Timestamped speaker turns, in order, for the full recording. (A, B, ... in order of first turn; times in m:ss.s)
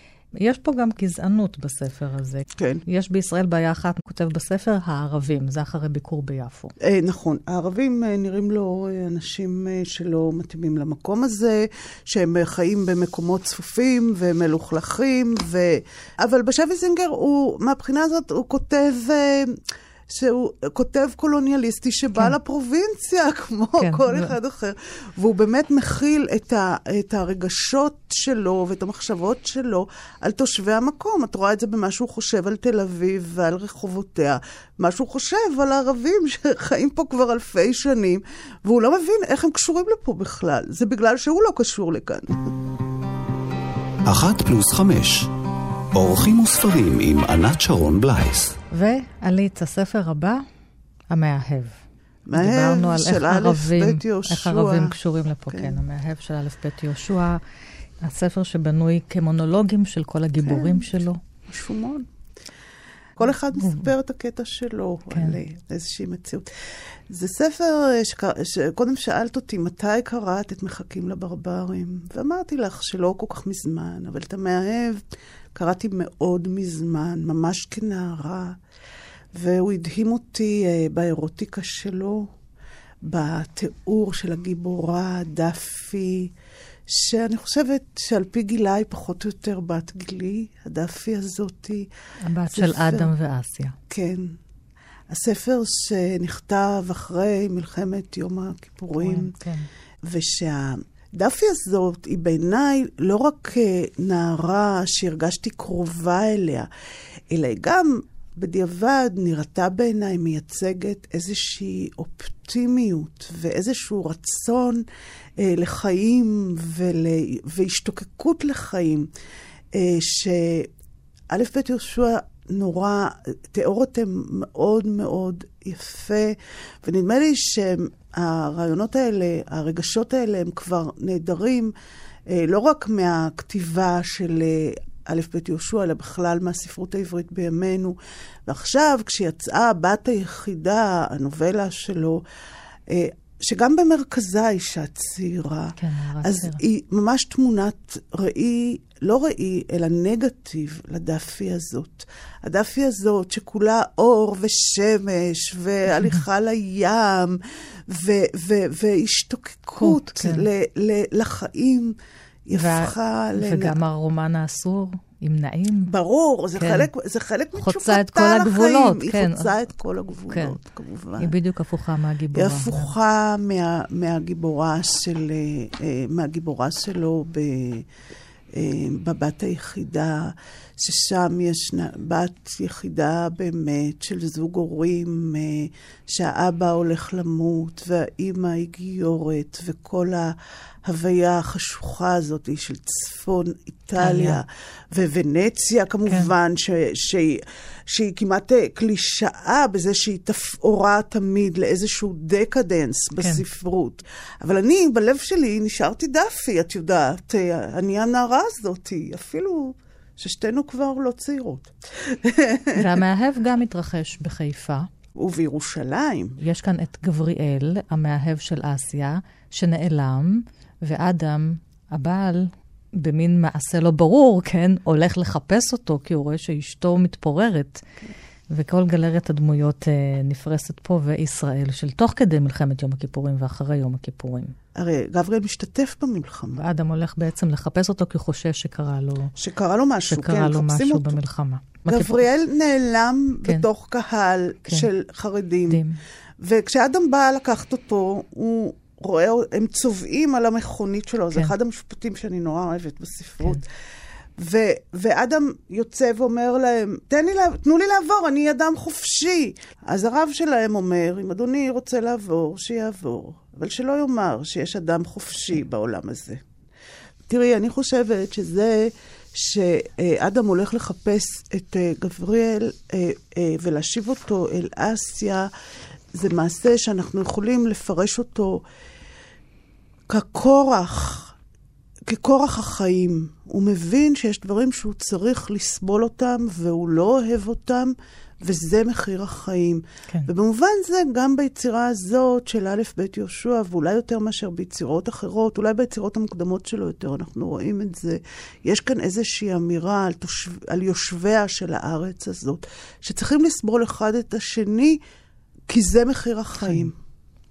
0:00.4-0:06.7 A
0:02.6-0:02.8 B
0:06.8-0:42.5 B
0:23.8-0:24.3 A
0:44.0-0:45.3 C
0:45.9-0:48.6 C
0:48.7-0:50.4 A
0:51.1-0:51.8 A
0:52.2-0:55.0 B
0:52.3-0:57.4 A
0:55.5-0:55.8 B
0:58.0-1:01.2 A
1:00.4-1:00.8 B
1:01.5-1:02.1 B
1:03.2-1:18.6 B
1:03.6-1:03.9 A
1:05.1-1:05.4 A
1:19.3-1:22.3 B
1:23.0-1:26.3 B
1:26.9-1:31.9 B
1:32.2-1:33.8 A
1:32.5-1:33.1 B
1:33.9-1:34.4 B
1:35.1-1:39.3 B
1:39.0-1:39.7 A
1:40.0-1:46.7 B
1:47.3-1:54.8 B
1:55.4-1:59.1 B
1:59.7-2:00.7 B
2:01.3-2:11.7 B
2:12.3-2:22.2 B
2:22.9-2:43.8 B
2:25.8-2:26.6 A
2:39.8-2:40.5 A
2:42.5-2:45.9 A
2:45.9-2:51.3 B
2:46.6-2:46.9 A
2:47.6-2:49.5 A
2:50.3-2:50.6 A
2:51.2-2:52.9 A
2:52.3-2:57.9 B
2:58.5-3:32.9 B
3:14.0-3:14.4 A
3:16.1-3:16.3 A
3:32.7-3:34.9 A
3:35.1-3:36.4 B
3:36.4-3:47.8 A
3:48.5-3:54.5 A
3:54.7-3:56.6 B
3:56.5-3:59.3 A
3:59.4-4:01.2 B
4:00.1-4:02.2 A
4:01.8-4:05.8 B
4:05.7-4:06.0 A
4:06.4-4:13.6 B
4:14.4-4:26.4 B
4:27.3-4:35.5 B
4:36.1-4:38.6 B
4:40.1-4:41.4 B
4:42.0-5:05.0 B
5:05.7-5:07.0 B
5:06.6-5:06.9 A